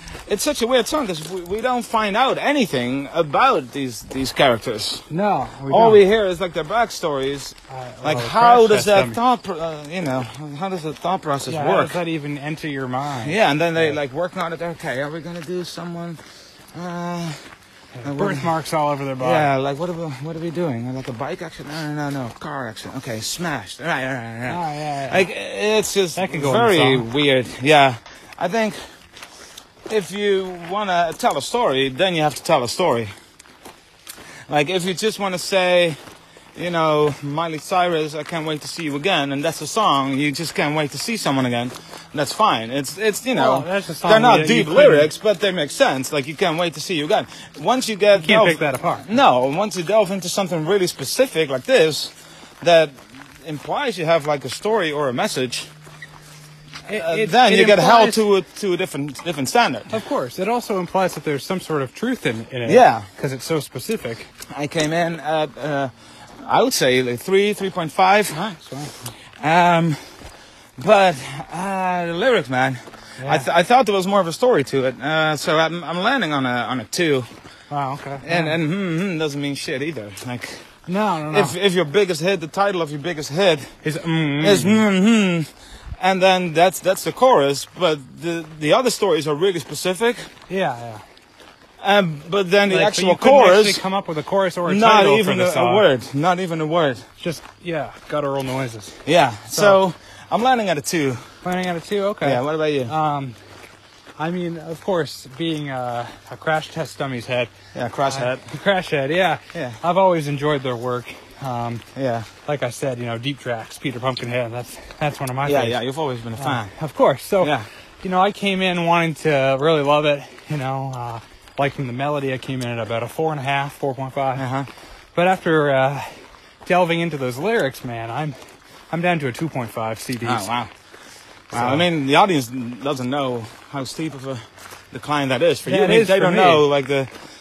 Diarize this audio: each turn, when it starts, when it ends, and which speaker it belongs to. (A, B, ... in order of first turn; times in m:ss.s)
0:00.3-0:05.0 A
0:05.1-0:06.0 B
0:05.7-0:12.0 A
0:07.7-0:09.2 B
0:11.4-0:14.0 B
0:13.2-0:16.2 A
0:16.7-0:17.4 A
0:17.9-0:19.5 B
0:18.0-0:18.5 A
0:19.2-0:28.8 A
0:24.5-0:25.3 B
0:26.1-0:27.1 B
0:29.9-0:33.1 A
0:34.5-0:36.0 A
0:36.6-0:55.7 A
0:43.3-0:45.1 B
0:48.2-0:49.1 B
0:56.8-0:58.2 B
0:56.9-0:59.9 A
0:59.9-1:04.3 B
1:02.6-1:03.1 A
1:04.5-1:05.9 A
1:06.4-1:08.4 A
1:08.3-1:09.1 B
1:09.4-1:10.0 A
1:10.8-1:17.3 A
1:13.2-1:13.5 B
1:17.7-1:18.6 B
1:18.2-1:20.6 A
1:20.9-1:21.5 B
1:21.3-1:23.7 A
1:23.8-1:24.8 B
1:24.4-1:25.5 A
1:26.0-1:30.2 A
1:30.5-1:31.0 B
1:31.8-1:33.8 A
1:32.7-1:35.8 B
1:34.6-1:37.0 A
1:37.2-1:39.0 B
1:39.0-1:41.2 A
1:39.5-1:39.8 B
1:41.4-1:43.4 B
1:42.2-1:42.9 A
1:44.2-1:47.5 B
1:47.7-1:48.5 A
1:48.1-1:51.8 B
1:49.5-1:49.8 A
1:51.9-1:52.3 A
1:52.4-1:55.8 B
1:55.4-1:56.7 A
1:56.4-2:04.5 B
1:57.4-1:57.6 A
2:04.4-2:04.7 A
2:05.1-2:08.3 B
2:08.9-2:10.5 B
2:10.2-2:10.7 A
2:11.5-2:17.1 A
2:11.5-2:11.9 B
2:15.6-2:16.7 B